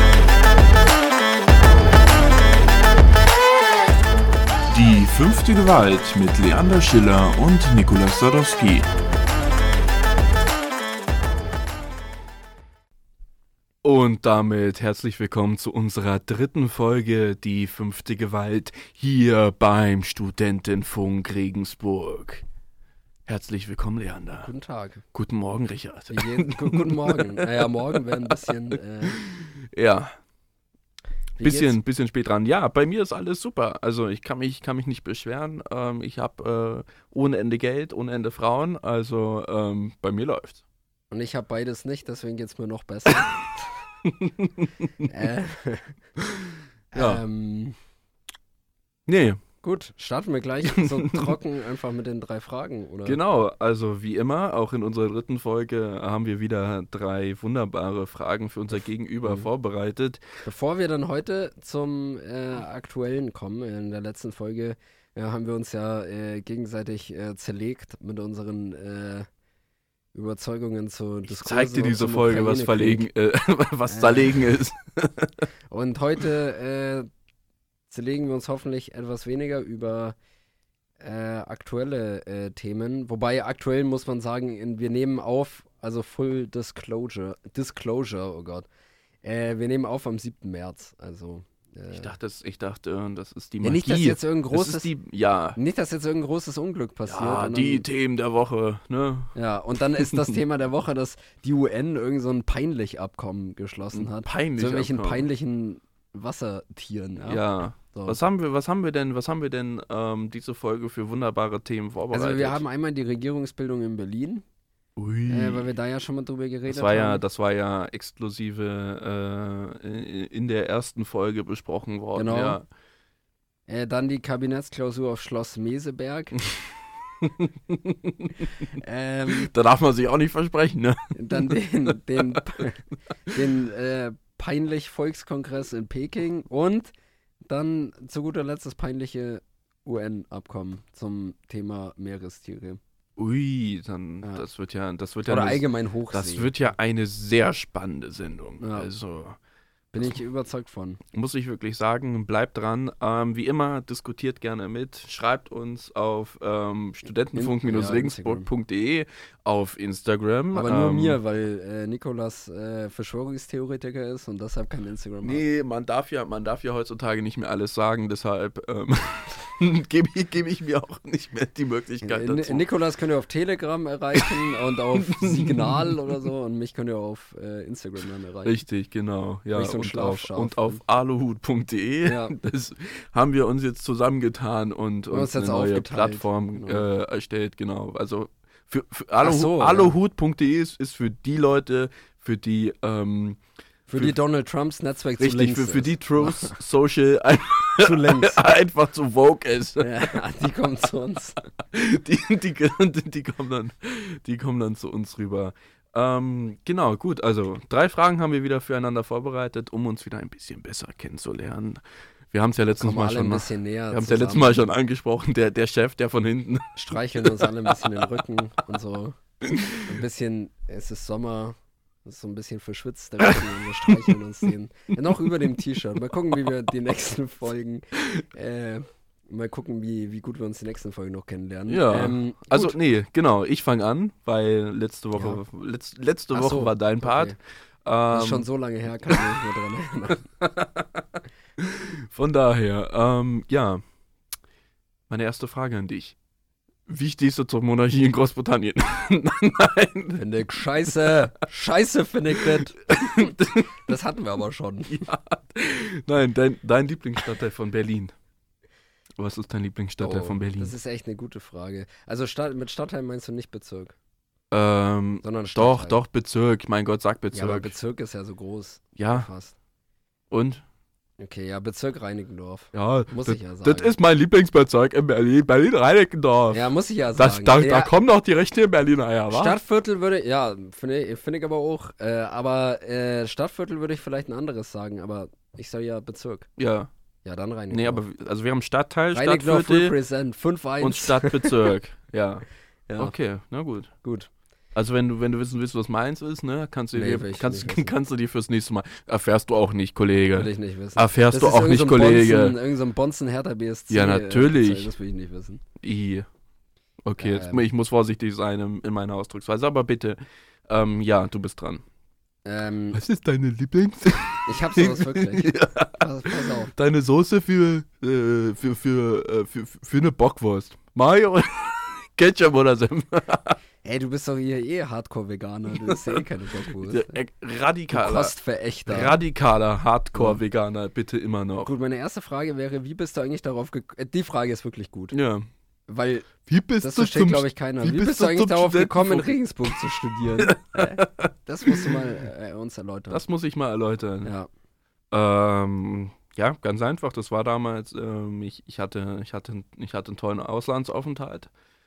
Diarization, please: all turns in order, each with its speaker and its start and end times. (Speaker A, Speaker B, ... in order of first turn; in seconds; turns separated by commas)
Speaker A: 4.7-8.9, Speaker B: 13.8-22.4, Speaker B: 23.3-24.5, Speaker C: 24.4-25.0, Speaker B: 25.1-28.5, Speaker C: 26.1-29.2, Speaker B: 29.1-30.1, Speaker C: 31.4-31.7, Speaker B: 31.4-40.6, Speaker C: 41.1-43.7, Speaker B: 44.0-44.9, Speaker C: 45.0-46.0, Speaker B: 46.2-47.2, Speaker C: 46.9-47.8, Speaker B: 49.1-49.4, Speaker C: 49.6-53.2, Speaker B: 50.8-51.3, Speaker B: 53.0-60.2, Speaker C: 60.4-69.3, Speaker C: 70.1-73.1, Speaker B: 71.2-75.5, Speaker C: 73.8-74.4, Speaker C: 75.7-77.1, Speaker C: 77.9-80.2, Speaker C: 81.0-88.7, Speaker C: 89.2-92.1, Speaker B: 91.9-95.6, Speaker C: 93.6-94.9, Speaker C: 95.5-97.8, Speaker B: 97.1-99.3, Speaker C: 99.3-108.2, Speaker B: 100.0-100.3, Speaker B: 103.9-105.2, Speaker B: 107.2-112.6, Speaker C: 112.1-114.4, Speaker B: 115.0-115.6, Speaker C: 115.3-117.2, Speaker B: 116.7-122.7, Speaker C: 122.1-122.6, Speaker C: 123.7-126.4, Speaker B: 127.2-128.5, Speaker C: 128.8-129.5, Speaker B: 129.3-132.6, Speaker C: 131.1-136.9, Speaker C: 137.4-142.8, Speaker B: 143.2-149.4, Speaker C: 145.2-146.5, Speaker C: 148.6-148.9, Speaker C: 149.9-151.0, Speaker B: 151.1-161.2, Speaker C: 157.3-158.5, Speaker C: 160.5-165.4, Speaker B: 165.2-172.6, Speaker C: 172.0-178.6, Speaker B: 175.0-175.9, Speaker B: 178.4-193.4, Speaker C: 179.5-180.8, Speaker C: 182.1-182.3, Speaker C: 185.1-186.8, Speaker C: 189.2-189.9, Speaker C: 193.9-196.6, Speaker B: 195.2-200.2, Speaker C: 197.8-198.4, Speaker C: 199.8-201.4, Speaker B: 201.6-217.9, Speaker C: 212.8-214.7, Speaker C: 216.8-219.2, Speaker B: 219.4-220.0, Speaker C: 219.8-232.8, Speaker B: 231.7-238.5, Speaker C: 235.1-235.4, Speaker C: 236.3-237.4, Speaker C: 238.1-240.3, Speaker B: 240.4-241.0, Speaker B: 241.6-243.8, Speaker B: 245.1-246.2, Speaker B: 246.9-250.2, Speaker C: 250.1-253.3, Speaker B: 250.8-251.1, Speaker B: 252.4-253.7, Speaker C: 253.8-255.1, Speaker B: 254.9-258.1, Speaker B: 259.2-260.7, Speaker C: 260.0-263.9, Speaker B: 264.5-267.7, Speaker C: 265.2-266.0, Speaker C: 267.3-269.6, Speaker B: 269.0-269.3, Speaker B: 270.3-270.6, Speaker C: 271.2-273.9, Speaker B: 272.7-279.6, Speaker C: 276.5-277.9, Speaker C: 279.3-286.5, Speaker B: 286.6-286.9, Speaker C: 287.2-288.0, Speaker B: 287.7-289.9, Speaker C: 289.1-291.7, Speaker B: 290.8-293.9, Speaker C: 292.9-293.1, Speaker C: 294.0-294.3, Speaker B: 294.7-302.6, Speaker C: 296.9-297.9, Speaker C: 300.3-305.6, Speaker B: 303.9-304.9, Speaker B: 305.8-306.2, Speaker B: 307.0-311.8, Speaker C: 307.2-307.6, Speaker C: 312.4-313.0, Speaker B: 312.9-323.6, Speaker C: 314.4-316.7, Speaker C: 323.8-327.1, Speaker B: 325.9-326.2, Speaker B: 326.7-328.3, Speaker C: 327.9-329.1, Speaker B: 328.9-331.7, Speaker C: 331.6-335.1, Speaker B: 335.1-335.5, Speaker C: 335.9-343.2, Speaker B: 336.5-339.8, Speaker B: 340.4-341.9, Speaker B: 343.1-344.3, Speaker C: 344.2-344.5, Speaker B: 345.1-351.5